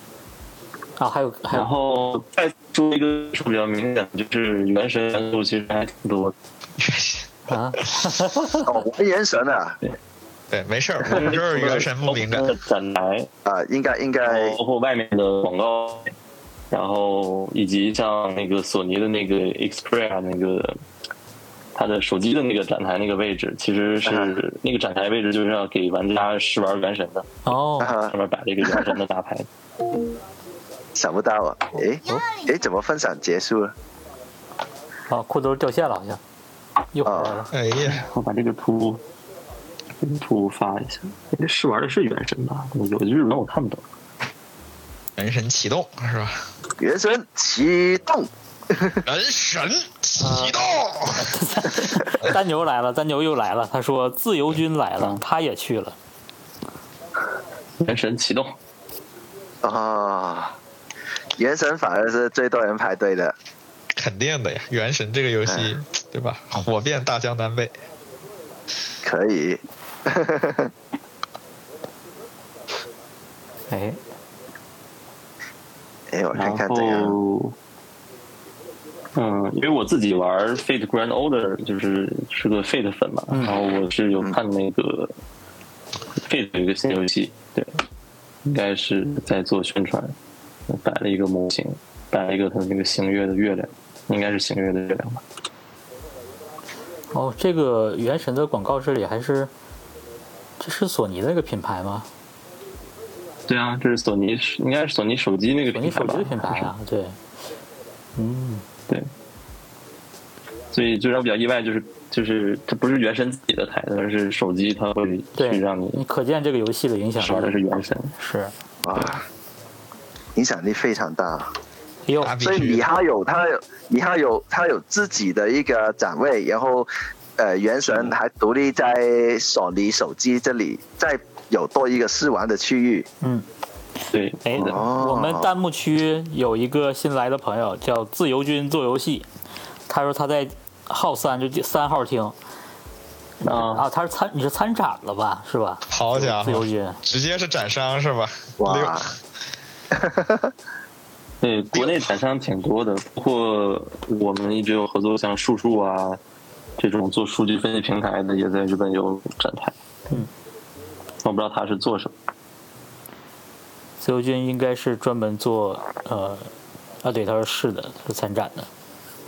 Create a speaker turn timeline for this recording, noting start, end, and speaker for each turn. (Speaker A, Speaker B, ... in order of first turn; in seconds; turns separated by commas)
Speaker A: 1.0-1.7, Speaker B: 1.5-6.3, Speaker C: 6.8-7.3, Speaker A: 7.5-8.7, Speaker D: 8.6-9.8, Speaker C: 10.5-12.5, Speaker B: 11.0-13.3, Speaker D: 13.4-14.6, Speaker B: 14.2-16.1, Speaker B: 16.7-20.8, Speaker B: 21.7-27.4, Speaker D: 24.0-24.3, Speaker A: 27.4-27.9, Speaker D: 27.8-28.9, Speaker B: 28.0-29.5, Speaker D: 30.9-33.7, Speaker A: 35.1-36.2, Speaker A: 36.9-37.5, Speaker D: 37.0-37.4, Speaker C: 37.5-38.0, Speaker B: 37.8-39.0, Speaker B: 40.0-43.8, Speaker C: 45.2-46.4, Speaker D: 46.8-49.0, Speaker C: 49.0-51.3, Speaker A: 50.2-50.6, Speaker A: 51.2-56.0, Speaker B: 57.8-58.5, Speaker D: 59.6-60.5, Speaker D: 61.4-63.3, Speaker C: 64.0-67.7, Speaker D: 69.0-70.7, Speaker A: 73.7-74.0, Speaker D: 76.1-77.1, Speaker B: 76.3-77.5, Speaker B: 79.2-85.1, Speaker B: 86.2-87.8, Speaker B: 88.4-90.1, Speaker B: 90.7-95.2, Speaker A: 97.1-99.5, Speaker A: 100.6-102.1, Speaker B: 103.5-106.7, Speaker A: 105.7-107.2, Speaker A: 108.2-108.6, Speaker B: 110.7-116.0, Speaker A: 115.4-117.6, Speaker B: 117.2-118.1, Speaker A: 118.2-118.5, Speaker D: 118.8-119.2, Speaker D: 120.3-121.5, Speaker A: 122.1-122.3, Speaker C: 122.2-122.9, Speaker D: 122.4-133.1, Speaker B: 127.9-128.1, Speaker B: 134.1-134.8, Speaker A: 134.4-139.3, Speaker D: 134.6-135.5, Speaker A: 139.9-142.3, Speaker A: 143.4-147.0, Speaker B: 143.4-143.8, Speaker C: 145.9-149.1, Speaker D: 148.6-149.1, Speaker D: 149.9-150.5, Speaker B: 151.4-156.2, Speaker B: 156.8-159.7, Speaker B: 161.2-162.1, Speaker A: 164.0-166.5, Speaker A: 167.0-168.7